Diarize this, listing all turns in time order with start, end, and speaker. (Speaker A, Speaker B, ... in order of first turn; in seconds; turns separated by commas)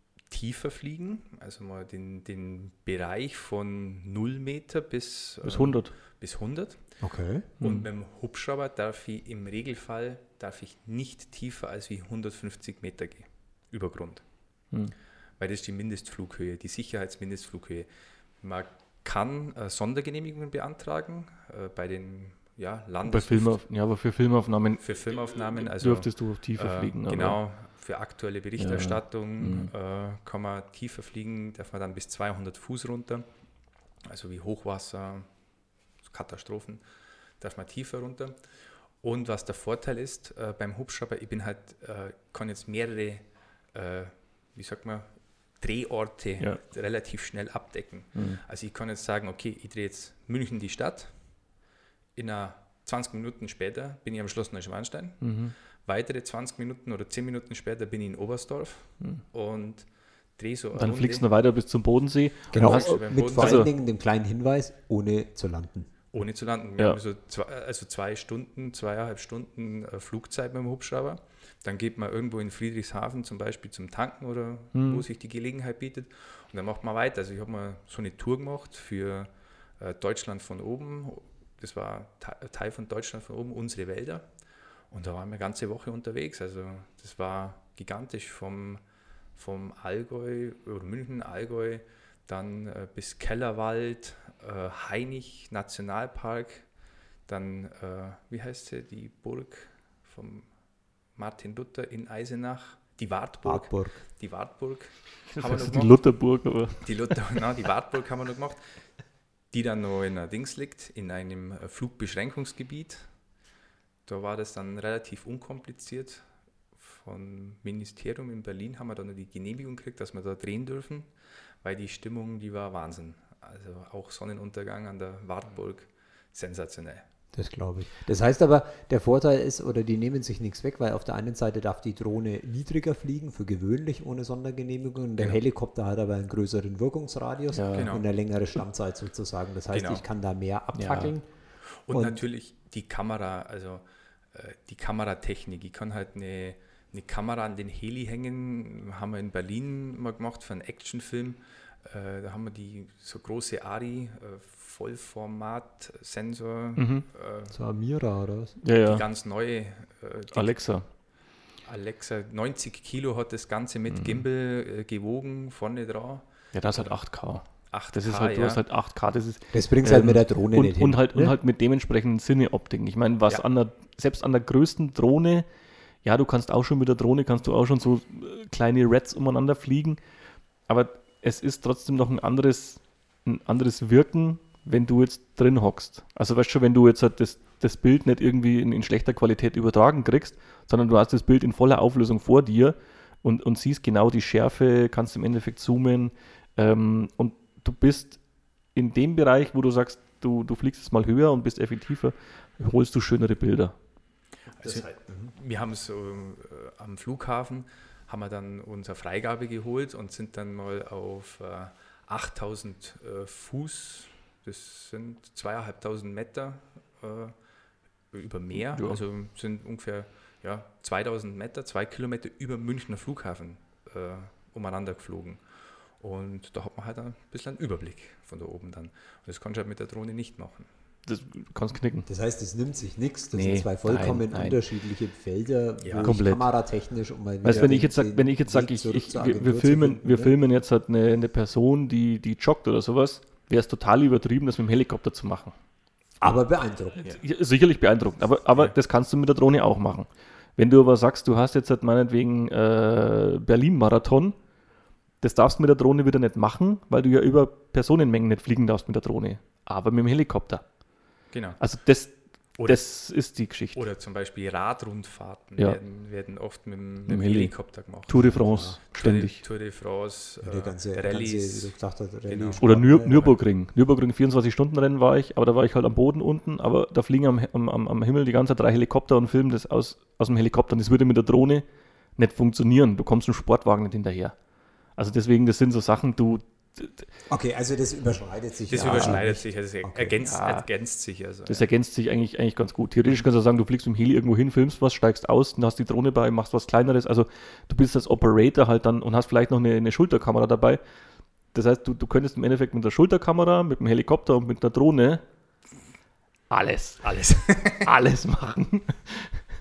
Speaker A: 0.2-14.5, Speaker B: 5.4-5.9, Speaker C: 7.0-7.5, Speaker B: 7.6-7.9, Speaker A: 15.4-17.9, Speaker A: 18.4-23.6, Speaker B: 23.0-27.4, Speaker A: 24.8-33.3, Speaker B: 28.6-29.7, Speaker A: 34.0-35.3, Speaker A: 36.0-36.8, Speaker A: 37.4-51.5, Speaker B: 48.1-48.4, Speaker A: 52.1-61.3, Speaker B: 55.2-55.5, Speaker B: 60.7-63.7, Speaker A: 62.5-63.7, Speaker C: 62.5-65.9, Speaker A: 66.1-84.3, Speaker B: 74.7-75.0, Speaker A: 84.9-88.8, Speaker A: 89.3-96.7, Speaker A: 97.3-100.5, Speaker A: 101.1-108.6, Speaker C: 103.4-104.0, Speaker B: 105.3-107.1, Speaker A: 109.5-113.2, Speaker A: 114.1-121.1, Speaker A: 121.6-127.0, Speaker C: 127.3-142.2, Speaker B: 137.5-137.9, Speaker A: 137.7-138.1, Speaker A: 139.7-140.1, Speaker B: 140.7-141.2, Speaker A: 141.8-157.6, Speaker B: 156.8-157.1, Speaker C: 157.5-158.6, Speaker B: 158.6-159.0, Speaker A: 158.8-161.0, Speaker B: 160.3-160.9, Speaker A: 161.7-168.6, Speaker B: 163.9-164.2, Speaker B: 166.5-175.5, Speaker C: 169.5-171.3, Speaker B: 176.0-180.0, Speaker B: 180.7-203.8, Speaker A: 204.6-217.3, Speaker C: 204.7-205.3, Speaker A: 218.1-230.7, Speaker B: 218.7-219.0, Speaker B: 231.1-232.1, Speaker C: 232.1-240.3, Speaker B: 233.3-234.6, Speaker A: 235.8-236.1, Speaker B: 236.0-236.5, Speaker B: 237.4-245.6, Speaker C: 246.2-247.1, Speaker B: 247.0-254.4, Speaker B: 255.2-260.9, Speaker A: 261.3-261.8, Speaker B: 261.6-263.8, Speaker A: 262.6-272.6, Speaker B: 267.1-269.4, Speaker C: 268.2-268.8, Speaker C: 270.4-273.3, Speaker B: 272.6-287.1, Speaker C: 287.3-290.2, Speaker A: 288.7-291.7, Speaker B: 290.2-290.7, Speaker B: 291.5-300.8, Speaker B: 301.5-305.3, Speaker B: 306.5-309.4, Speaker A: 307.0-307.9